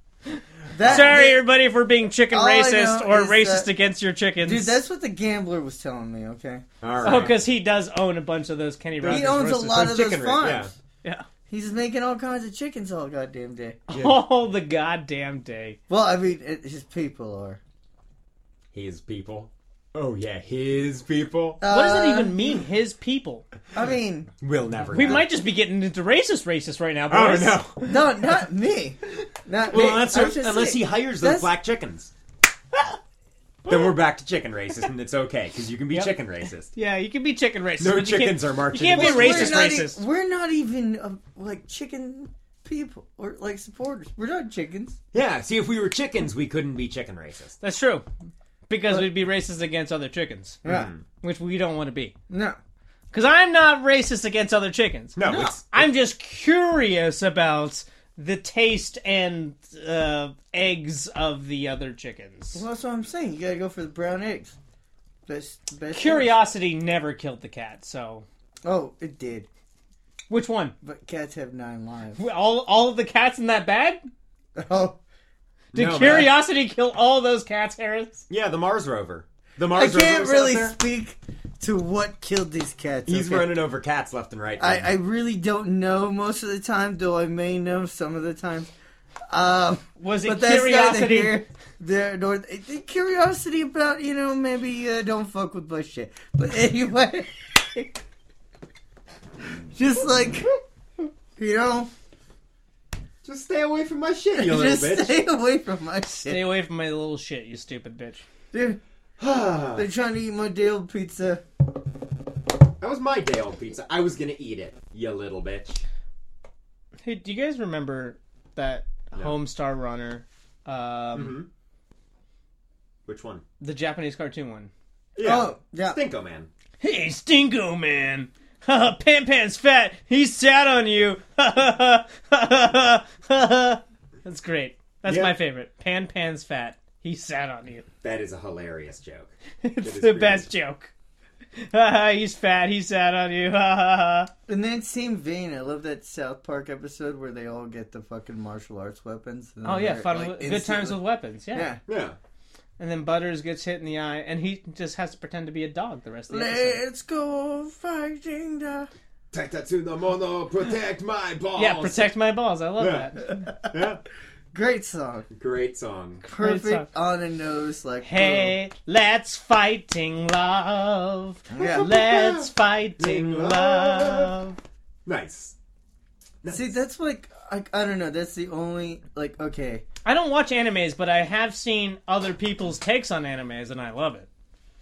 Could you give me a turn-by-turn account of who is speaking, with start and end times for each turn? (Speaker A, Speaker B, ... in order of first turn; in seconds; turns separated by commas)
Speaker A: 0.3-4.8, Speaker B: 0.7-1.4, Speaker C: 0.8-1.2, Speaker B: 2.3-3.7, Speaker B: 4.4-6.6, Speaker C: 6.8-7.4, Speaker A: 7.0-9.9, Speaker C: 9.0-10.7, Speaker B: 9.1-10.7, Speaker B: 11.5-13.8, Speaker A: 13.9-15.8, Speaker C: 13.9-14.2, Speaker B: 15.9-17.6, Speaker C: 18.7-21.6, Speaker B: 21.6-22.6, Speaker A: 21.7-23.4, Speaker B: 23.7-24.3, Speaker C: 24.4-25.3, Speaker A: 24.9-28.0, Speaker C: 27.1-27.9, Speaker B: 27.8-31.5, Speaker C: 29.7-32.1, Speaker A: 33.7-34.0, Speaker C: 33.7-36.7, Speaker A: 35.9-36.2, Speaker A: 36.7-40.0, Speaker C: 37.8-39.6, Speaker B: 38.9-45.0, Speaker C: 45.1-47.6, Speaker A: 47.6-48.0, Speaker A: 48.7-50.6, Speaker B: 50.6-50.9, Speaker C: 50.6-51.0, Speaker A: 51.2-52.1, Speaker B: 52.3-52.6, Speaker A: 53.1-62.6, Speaker C: 55.2-55.9, Speaker B: 55.2-55.6, Speaker B: 62.5-64.6, Speaker B: 65.3-66.3, Speaker A: 65.9-68.3, Speaker B: 68.6-69.5, Speaker A: 70.3-70.7, Speaker B: 70.8-72.2, Speaker A: 72.2-74.0, Speaker B: 74.6-75.0, Speaker C: 75.7-76.3, Speaker A: 75.7-78.2, Speaker C: 78.3-80.8, Speaker B: 79.7-83.6, Speaker C: 83.1-84.9, Speaker B: 84.6-88.7, Speaker B: 89.3-98.0, Speaker A: 90.0-91.4, Speaker B: 99.7-100.5, Speaker B: 101.4-101.9, Speaker C: 103.2-105.2, Speaker B: 104.3-106.5, Speaker A: 106.3-108.3, Speaker B: 108.5-108.8, Speaker C: 109.2-109.9, Speaker B: 109.8-111.4, Speaker C: 112.8-115.8, Speaker A: 117.0-121.4, Speaker C: 121.1-121.5, Speaker C: 123.1-123.4, Speaker A: 123.6-124.7, Speaker C: 125.2-126.5, Speaker B: 125.2-126.0, Speaker A: 126.8-137.9, Speaker C: 135.1-135.3, Speaker C: 138.0-140.5, Speaker A: 139.6-140.9, Speaker A: 141.6-144.3, Speaker B: 144.5-151.0, Speaker A: 149.6-151.7, Speaker B: 151.5-151.8, Speaker C: 151.9-152.2, Speaker A: 152.8-156.8, Speaker B: 156.3-158.9, Speaker C: 159.3-162.1, Speaker A: 161.6-163.2, Speaker C: 162.8-164.0, Speaker B: 163.3-163.7, Speaker B: 164.5-165.3, Speaker C: 165.3-166.2, Speaker A: 166.2-166.9, Speaker B: 166.2-168.6, Speaker A: 168.0-174.6, Speaker B: 171.5-171.9, Speaker C: 171.6-174.4, Speaker C: 175.1-175.6, Speaker C: 176.4-176.7, Speaker B: 176.5-179.8, Speaker A: 180.1-184.3